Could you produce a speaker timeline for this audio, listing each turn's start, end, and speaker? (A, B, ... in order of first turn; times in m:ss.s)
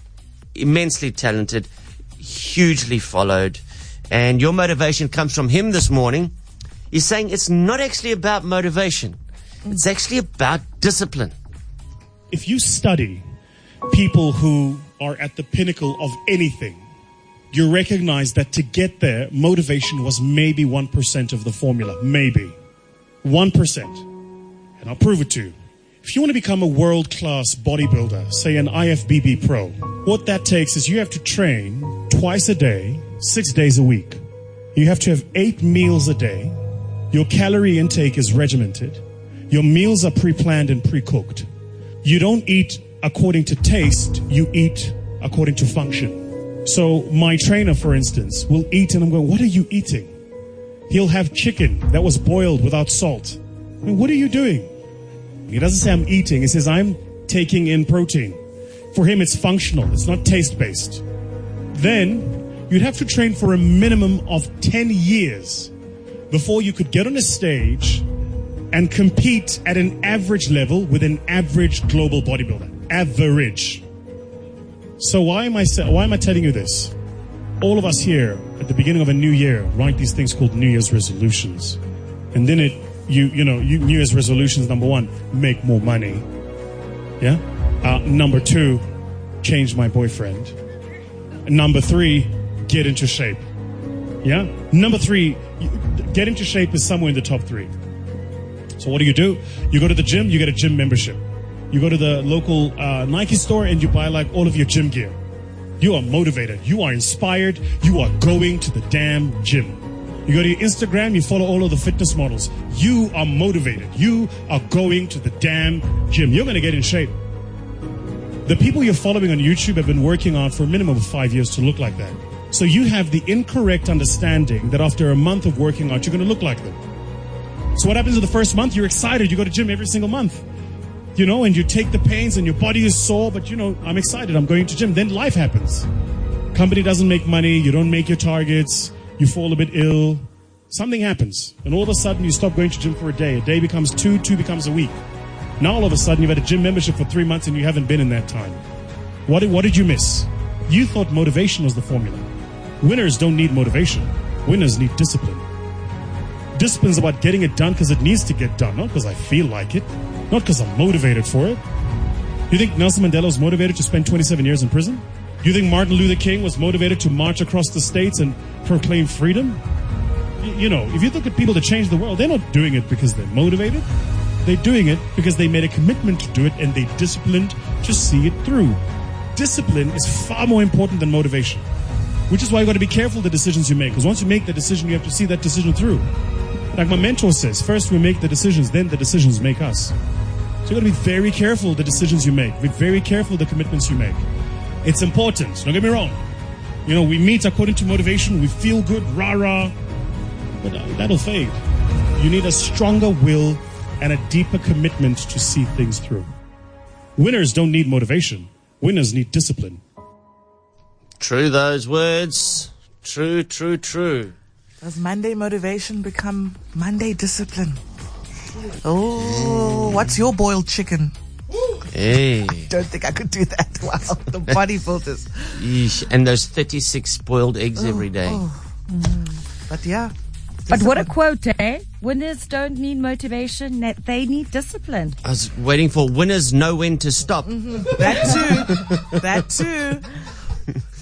0:00.6-0:06.3 A
0:06.9-0:11.4 A
0:12.3-0:13.2 B
0:13.9-0:16.8 B
0:17.5-0:22.6 B
0:23.2-0:24.1 B
0:24.8-0:34.2 B
0:34.7-0:36.6 B
0:37.1-0:41.5 B
0:42.0-0:50.1 B
0:50.9-0:54.7 B
0:55.5-0:58.4 B
0:58.9-1:01.0 B
1:01.7-1:05.7 B
1:06.3-1:08.1 B
1:08.7-1:13.8 B
1:15.0-1:16.9 B
1:17.6-1:21.8 B
1:22.3-1:26.3 B
1:27.2-1:28.9 B
1:29.4-1:30.6 B
1:31.5-1:33.4 B
1:34.2-1:37.7 B
1:38.8-1:45.2 B
1:45.8-1:57.2 B
1:58.4-2:06.8 B
2:07.8-2:10.4 B
2:11.2-2:15.9 B
2:16.5-2:25.0 B
2:25.6-2:28.6 B
2:29.3-2:32.3 B
2:32.8-2:35.4 B
2:36.6-2:41.6 B
2:42.5-2:49.6 B
2:50.4-2:53.9 B
2:54.4-2:58.8 B
2:59.4-3:01.7 B
3:02.3-3:06.1 B
3:06.7-3:10.0 B
3:10.6-3:14.2 B
3:14.8-3:16.2 B
3:16.9-3:19.8 B
3:20.6-3:21.6 B
3:22.2-3:26.3 B
3:27.2-3:29.8 B
3:31.2-3:34.3 A
3:34.8-3:37.8 C
3:38.8-3:41.1 C
3:39.2-3:40.2 A
3:41.8-3:42.7 A
3:42.7-3:45.6 C
3:45.6-3:48.4 A
3:47.8-3:50.1 C
3:50.7-3:51.1 C
3:50.7-3:55.2 D
3:55.2-3:59.2 A
3:57.5-4:00.2 C